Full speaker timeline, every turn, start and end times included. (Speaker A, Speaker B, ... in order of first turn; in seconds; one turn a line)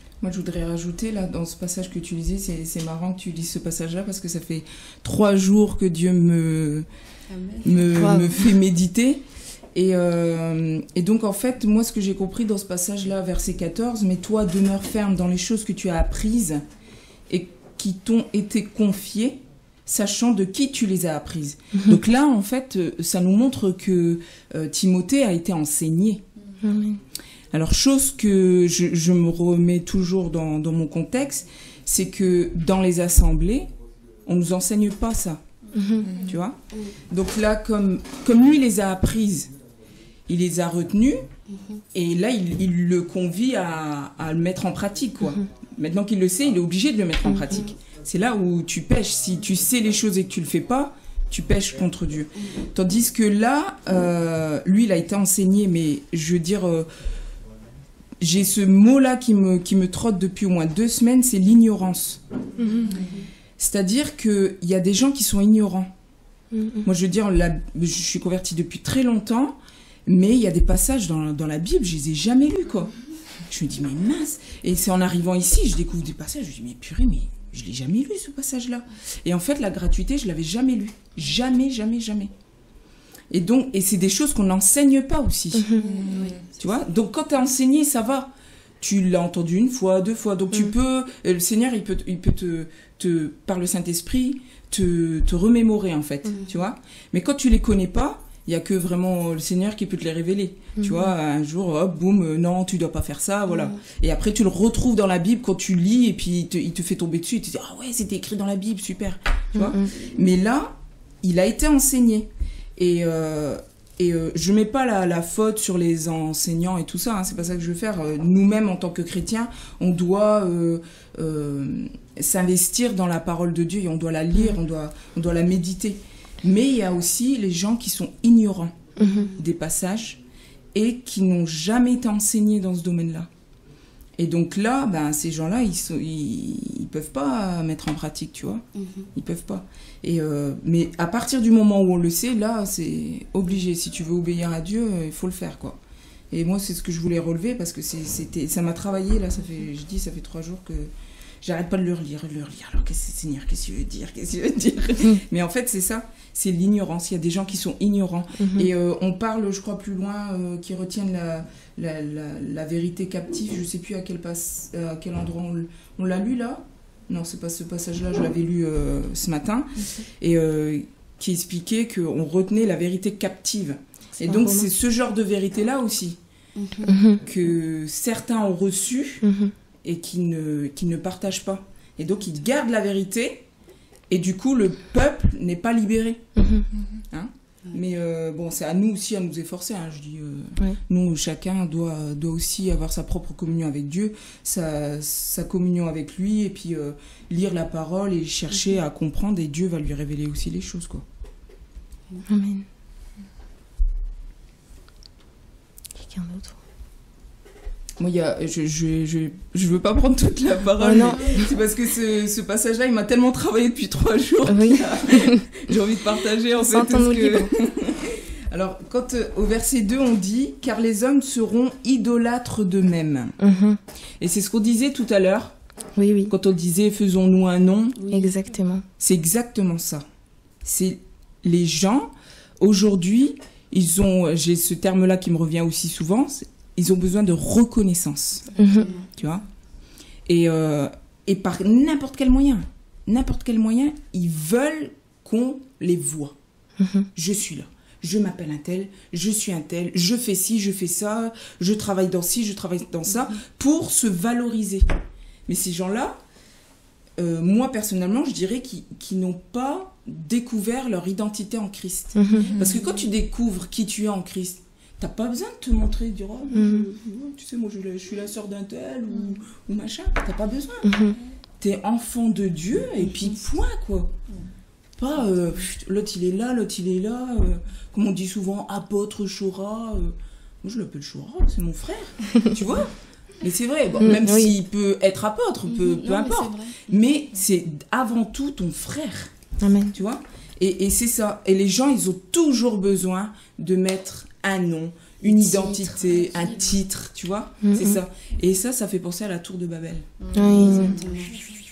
Speaker A: 0.2-6.9
Speaker B: 7.3-8.1
Speaker A: 7.6-9.2
Speaker C: 8.0-8.4
Speaker A: 9.8-16.6
Speaker A: 17.3-26.2
Speaker C: 26.6-27.0
Speaker A: 27.5-33.7
Speaker A: 34.2-35.4
Speaker C: 35.7-36.1
Speaker A: 36.0-36.6
Speaker B: 36.7-37.0
Speaker A: 37.1-39.5
Speaker A: 40.3-41.2
Speaker B: 41.5-41.8
Speaker A: 41.9-56.9
Speaker C: 47.2-47.6
Speaker A: 58.2-62.2
Speaker C: 62.6-63.0
Speaker A: 63.6-65.9
Speaker C: 66.5-66.9
Speaker A: 66.8-72.9
Speaker A: 73.5-82.3
Speaker A: 83.3-130.2
Speaker C: 85.6-86.0
Speaker B: 85.8-86.8
Speaker B: 103.5-103.8
Speaker C: 109.5-109.9
Speaker C: 129.0-129.3
Speaker B: 129.0-129.3
Speaker A: 130.8-133.3
Speaker A: 134.2-145.8
Speaker B: 138.8-139.1
Speaker A: 146.3-150.9
Speaker A: 151.4-176.2
Speaker C: 158.4-158.7
Speaker C: 174.2-174.7
Speaker B: 176.6-177.0
Speaker C: 176.9-177.2
Speaker A: 177.2-179.2
Speaker C: 179.2-179.5
Speaker A: 179.8-183.5
Speaker A: 184.1-186.3
Speaker C: 186.4-186.7
Speaker A: 187.1-201.0
Speaker C: 202.2-202.7
Speaker C: 206.0-206.6
Speaker A: 208.0-223.4
Speaker C: 210.8-211.5
Speaker C: 214.5-215.4
Speaker C: 216.6-217.5
Speaker C: 223.4-223.8
Speaker A: 224.2-225.5
Speaker C: 226.0-226.3
Speaker A: 226.3-228.0
Speaker B: 228.0-228.3
Speaker C: 228.1-228.8
Speaker A: 229.0-230.0
Speaker A: 230.6-239.4
Speaker C: 238.6-238.9
Speaker B: 238.8-239.1
Speaker A: 240.3-246.4
Speaker C: 246.8-247.1
Speaker A: 247.2-254.9
Speaker A: 255.5-256.2
Speaker A: 257.2-270.9
Speaker C: 262.1-262.6
Speaker B: 262.3-263.1
Speaker C: 266.5-266.9
Speaker C: 270.8-271.2
Speaker A: 271.6-274.2
Speaker A: 275.0-289.3
Speaker C: 284.0-284.5
Speaker B: 285.6-287.0
Speaker C: 289.6-289.9
Speaker A: 289.9-300.9
Speaker B: 295.2-296.8
Speaker C: 297.6-298.0
Speaker C: 300.3-300.9
Speaker B: 300.3-301.4